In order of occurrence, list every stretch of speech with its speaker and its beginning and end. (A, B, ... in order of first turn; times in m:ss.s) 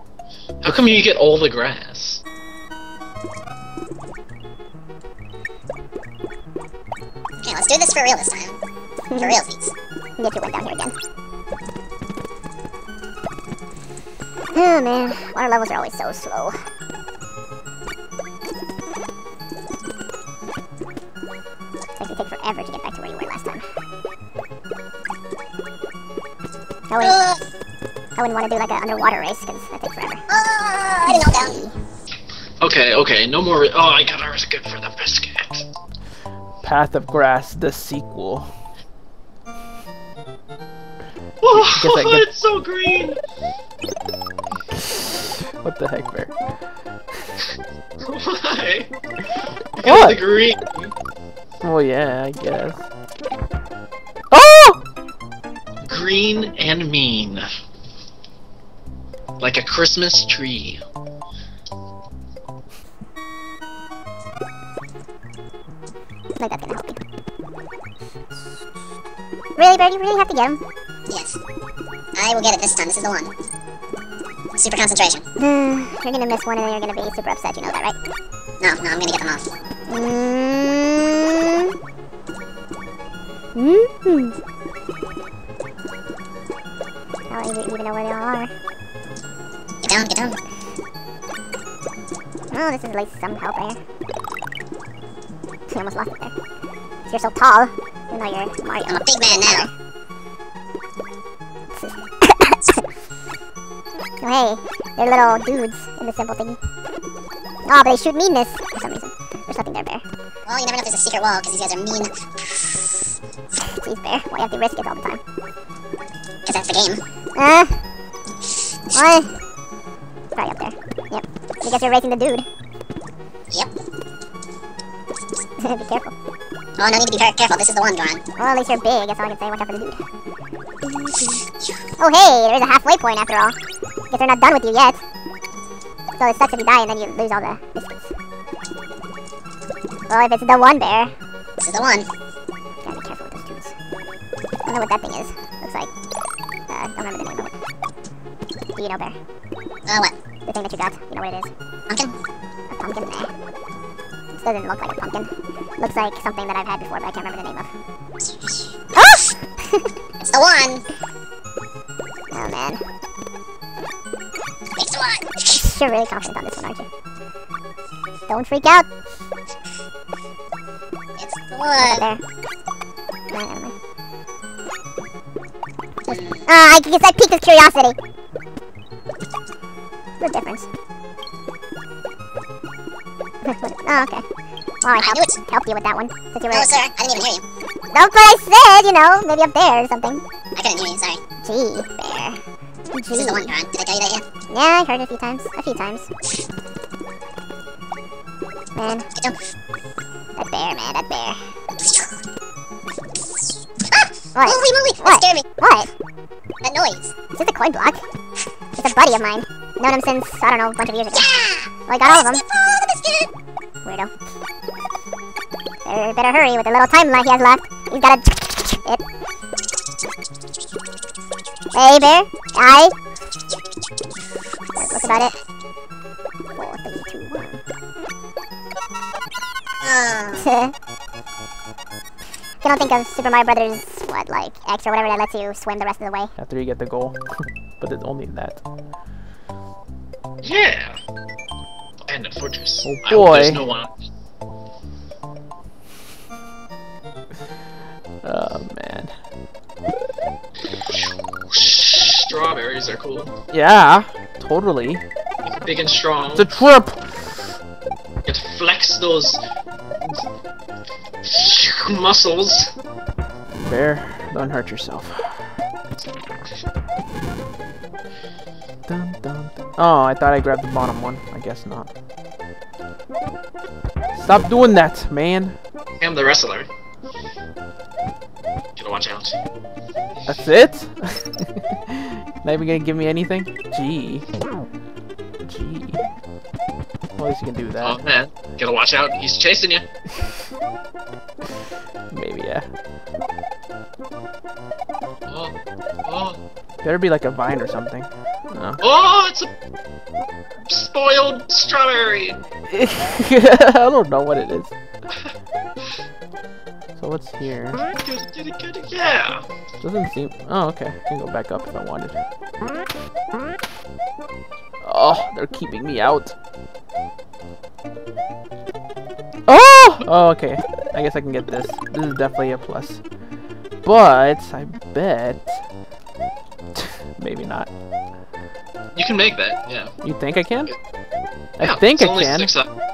0:00.6-0:02.2 A
0:00.7-0:00.9 B
0:07.4-0:08.6 C
0:09.1-0:09.4 D
0:09.2-0:09.7 C
0:10.2-0:11.0 D
0:14.5-0:16.6 D
0:22.0-0:23.6 D
0:26.9-0:27.1 D
0:27.0-0:27.4 C
0:28.2-0:30.2 D
0:30.3-0:31.6 C
0:31.1-0:31.7 D
0:32.6-0:35.7 A
0:36.6-0:38.5 B
0:41.4-0:43.2 A
0:41.5-0:42.2 B
0:44.7-0:46.3 B
0:48.0-0:48.9 A
0:49.8-0:50.9 A
0:49.8-0:50.2 B
0:51.6-0:52.8 B
0:54.3-0:54.8 B
0:55.8-0:57.4 A
0:59.4-1:00.8 A
1:06.4-1:07.0 D
1:09.6-1:10.6 D
1:11.1-1:11.4 C
1:12.2-1:13.3 C
1:14.6-1:15.2 C
1:15.4-1:18.0 D
1:18.6-1:19.4 C
1:19.9-1:21.7 D
1:23.6-1:24.4 D
1:27.3-1:28.5 D
1:29.8-1:30.4 C
1:32.5-1:33.8 D
1:35.7-1:36.3 D
1:37.1-1:39.7 D
1:38.8-1:39.7 C
1:41.7-1:42.8 D
1:44.2-1:46.6 D
1:47.6-1:50.0 D
1:50.5-1:52.2 C
1:53.6-1:55.2 D
1:56.4-1:57.0 C
1:57.4-1:57.8 D
1:58.9-1:59.3 D
2:00.4-2:02.5 D
2:05.6-2:06.1 D
2:06.8-2:08.2 C
2:08.4-2:10.0 D
2:10.9-2:11.4 D
2:12.0-2:13.6 D
2:14.1-2:15.0 D
2:16.2-2:18.1 D
2:20.1-2:21.1 D
2:21.6-2:22.1 C
2:22.8-2:23.7 D
2:24.6-2:25.9 D
2:26.7-2:27.6 D
2:28.8-2:29.2 D
2:29.9-2:30.1 C
2:30.4-2:31.5 D
2:31.9-2:32.1 C
2:32.7-2:33.3 D
2:34.4-2:37.7 D
2:38.9-2:39.9 D
2:40.2-2:40.8 C
2:42.3-2:42.8 D
2:44.8-2:45.6 C
2:45.6-2:46.9 D
2:48.3-2:48.9 D
2:51.2-2:52.0 C
2:51.8-2:52.2 D
2:53.3-2:53.7 D
2:56.1-2:56.5 C
2:56.1-2:58.0 D
3:00.2-3:00.7 D
3:03.4-3:04.2 D
3:04.8-3:06.7 D
3:04.9-3:05.4 C
3:06.5-3:07.4 C
3:07.9-3:10.2 D
3:10.5-3:11.2 C
3:11.4-3:12.4 D
3:12.9-3:13.5 D
3:13.1-3:14.3 C
3:14.5-3:16.1 D
3:18.8-3:19.0 D
3:18.9-3:19.4 C
3:20.4-3:21.4 D
3:21.7-3:22.1 C
3:23.9-3:25.4 C
3:24.4-3:25.9 D
3:26.6-3:27.2 C
3:27.3-3:28.0 D
3:28.8-3:31.3 D
3:31.1-3:33.3 C
3:31.9-3:32.4 D
3:33.8-3:34.1 D
3:35.8-3:39.0 D
3:41.7-3:42.9 D
3:44.8-3:45.1 C
3:44.8-3:45.3 D
3:46.6-3:47.6 D
3:49.8-3:50.5 C
3:50.4-3:50.7 D
3:52.6-3:56.3 D
3:56.4-3:58.6 B
4:00.4-4:01.0 A
4:02.0-4:03.9 A
4:02.8-4:03.6 B
4:08.2-4:09.1 B
4:10.6-4:13.3 A
4:13.5-4:15.0 B
4:15.4-4:16.5 A
4:16.3-4:17.6 B
4:18.2-4:19.4 A
4:21.2-4:22.7 A
4:23.6-4:25.5 B
4:28.9-4:31.9 B
4:34.1-4:35.6 B
4:36.0-4:36.7 A
4:38.8-4:39.4 A
4:40.2-4:44.3 B
4:45.4-4:46.0 B
4:47.2-4:48.0 B
4:47.8-4:49.9 A
4:52.1-4:52.7 B
4:55.3-4:56.4 A
4:56.8-4:58.8 B
4:58.8-4:59.5 A
5:00.6-5:02.4 A
5:02.7-5:04.7 B
5:07.0-5:07.9 B
5:07.9-5:09.4 A
5:09.8-5:12.2 B
5:14.8-5:16.4 B
5:19.5-5:23.0 B
5:23.8-5:25.6 B
5:26.7-5:27.7 B
5:28.9-5:29.9 A
5:30.0-5:30.7 B
5:31.6-5:32.5 B
5:31.6-5:32.7 A